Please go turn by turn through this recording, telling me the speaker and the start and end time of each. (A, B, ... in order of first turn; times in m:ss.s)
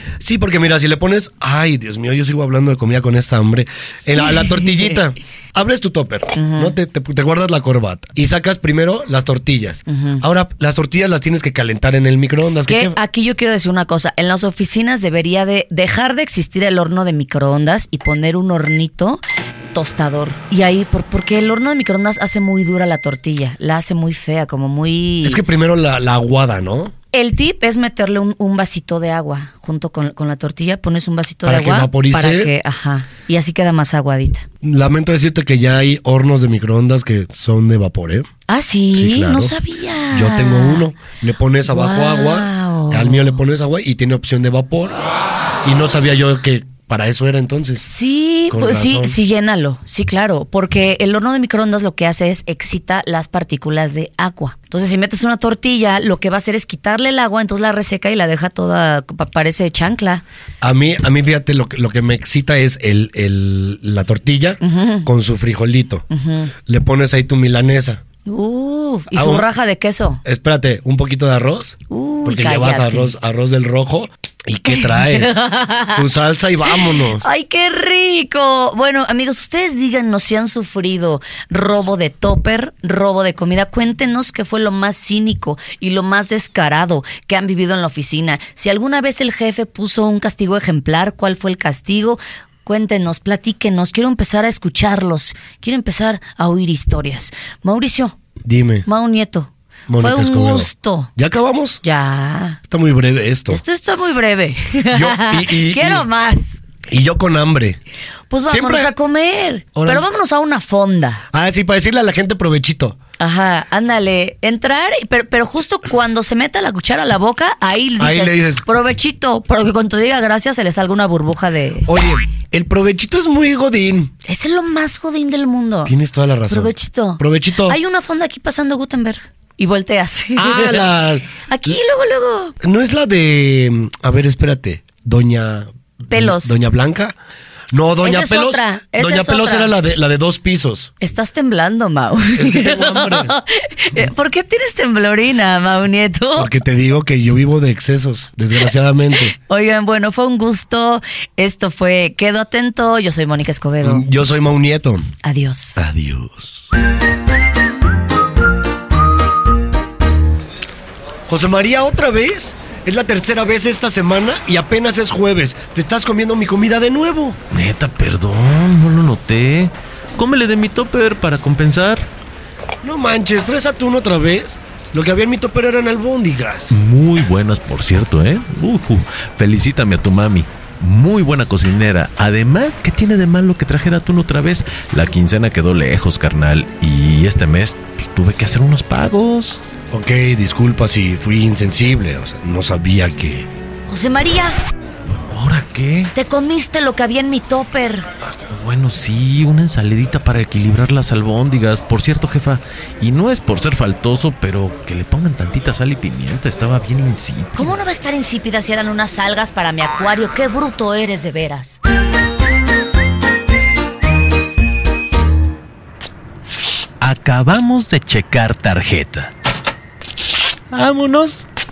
0:00.2-0:13.0 A
0:04.2-0:05.0 B
0:06.3-0:06.7 B
0:09.9-0:10.2 B
0:12.7-0:19.2 B
0:19.7-0:25.4 B
0:25.2-0:26.9 A
0:27.1-0:34.5 B
0:31.4-0:32.5 A
0:34.6-0:38.3 A
0:38.5-0:40.9 B
0:38.9-0:39.6 A
0:40.1-0:45.0 A
0:41.7-0:43.4 B
0:45.6-0:47.9 A
0:47.8-1:00.2 B
0:48.5-0:49.2 A
1:00.6-1:06.1 A
1:04.6-1:05.1 B
1:06.1-1:06.5 B
1:06.7-1:08.0 A
1:08.3-1:10.2 B
1:09.1-1:09.5 A
1:10.2-1:17.2 A
1:11.9-1:13.1 B
1:14.7-1:16.0 B
1:16.7-1:38.2 B
1:38.5-1:38.9 A
1:38.9-1:41.1 B
1:39.9-1:41.8 A
1:41.8-1:42.6 B
1:42.7-1:43.6 A
1:43.5-1:46.6 B
1:44.9-1:46.1 A
1:46.9-1:47.8 A
1:48.3-1:51.2 B
1:48.5-1:48.9 A
1:49.8-1:50.1 A
1:51.3-1:53.0 A
1:53.2-2:01.9 B
1:58.0-1:58.6 A
2:01.9-2:04.1 A
2:04.3-2:05.9 B
2:05.9-2:07.8 A
2:06.5-2:10.9 B
2:10.4-2:11.7 A
2:11.5-2:12.6 B
2:12.6-2:17.2 A
2:16.1-2:16.6 B
2:17.7-2:20.9 A
2:18.0-2:19.7 B
2:21.0-2:26.5 B
2:22.3-2:23.4 A
2:26.4-2:29.4 A
2:29.4-2:34.1 B
2:33.8-2:35.1 A
2:35.2-2:35.8 B
2:35.8-2:36.7 A
2:41.3-2:47.4 A
2:47.5-2:52.1 C
2:52.8-2:56.7 A
2:56.7-3:09.6 C
3:09.9-3:13.5 A
3:13.9-3:14.6 B
3:15.1-3:16.1 C
3:16.2-3:18.1 B
3:18.2-3:27.8 C
3:27.6-3:31.8 B
3:37.0-3:39.3 C
3:40.7-3:41.5 C